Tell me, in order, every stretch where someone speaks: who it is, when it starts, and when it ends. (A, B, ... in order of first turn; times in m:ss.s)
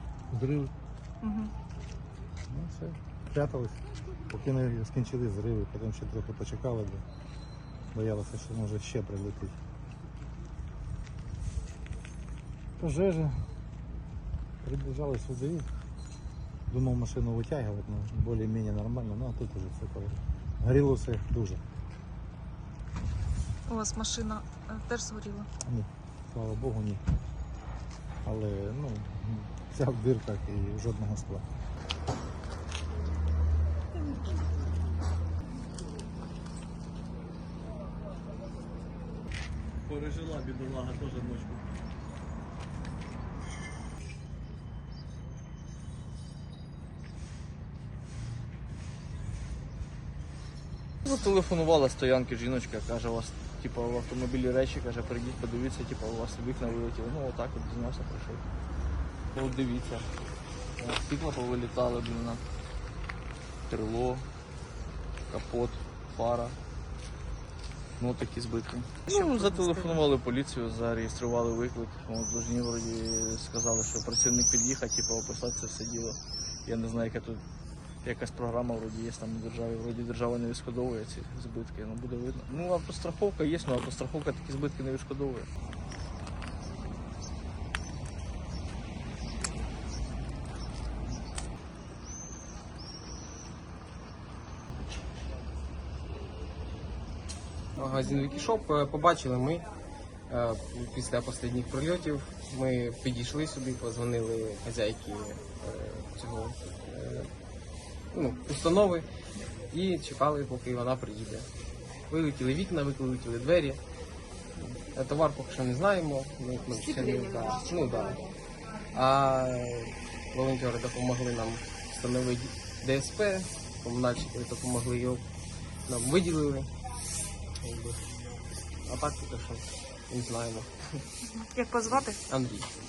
0:00.3-0:00.7 A
0:01.2-0:01.5 B
0:02.5-0:07.0 A
0:07.9-0:09.6 A
0:12.8-0:13.5 A
0:14.6-0:15.7 A
0:16.7-0:21.6 A
0:23.7-0:25.5 B
0:25.6-0:27.0 A
0:28.2-0:31.5 A
0:39.9-0:41.7 C
0:51.1-0:58.4 C
0:59.3-1:00.1 C
1:00.8-1:02.4 C
1:03.7-1:04.3 C
1:05.3-1:06.6 C
1:08.0-1:17.4 C
1:09.1-1:10.0 B
1:18.0-1:25.5 C
1:37.8-1:39.7 D
1:40.3-1:47.3 D
1:48.1-1:49.1 D
1:49.7-1:51.5 D
1:52.1-1:53.8 D
1:54.6-1:58.3 D
1:56.8-1:58.3 B
1:58.9-2:05.3 D
2:05.9-2:06.7 D
2:07.6-2:08.1 D
2:08.8-2:11.0 D
2:11.2-2:12.2 B
2:12.1-2:12.7 D